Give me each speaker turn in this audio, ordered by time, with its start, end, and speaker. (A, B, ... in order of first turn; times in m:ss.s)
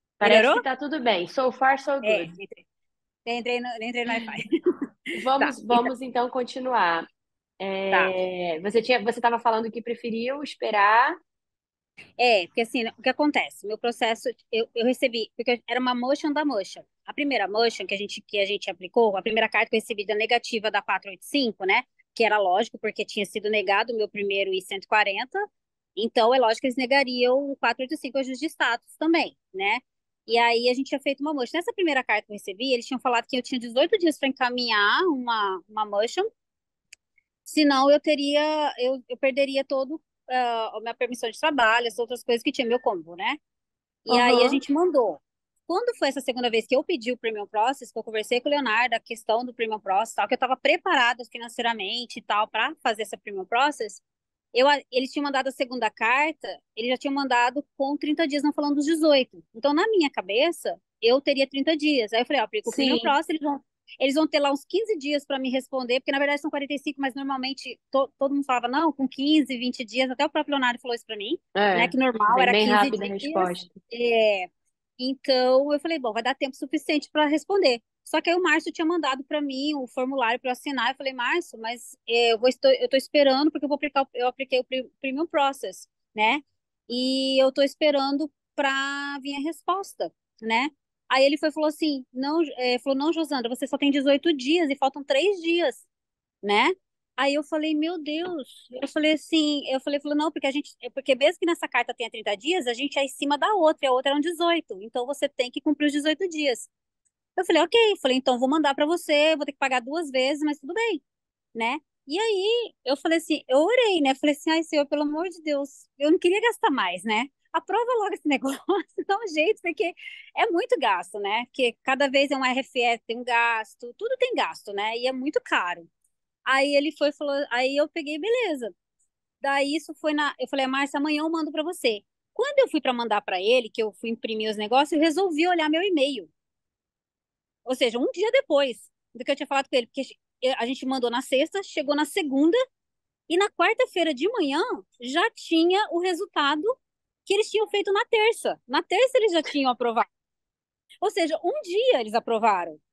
0:00.2-0:02.3 A
0:00.2-0:00.6 B
0:02.0-0:02.6 B
0:03.2-0:04.5 B
0:05.1-0:05.9 B
0:05.1-0:07.1 A
0:07.6-0:11.2 A
0:07.9-0:08.2 B
0:12.2-0:25.4 B
0:26.0-0:36.2 B
0:37.4-0:43.4 B
0:44.1-0:54.0 B
0:44.1-0:44.6 A
0:54.5-1:35.9 B
1:02.7-1:03.1 A
1:11.6-1:13.8 A
1:36.4-1:46.7 B
1:47.4-1:51.0 B
1:51.6-2:05.9 B
2:06.4-2:08.7 B
2:09.4-2:16.3 B
2:17.6-2:22.6 B
2:23.3-2:30.1 B
2:31.0-2:32.8 B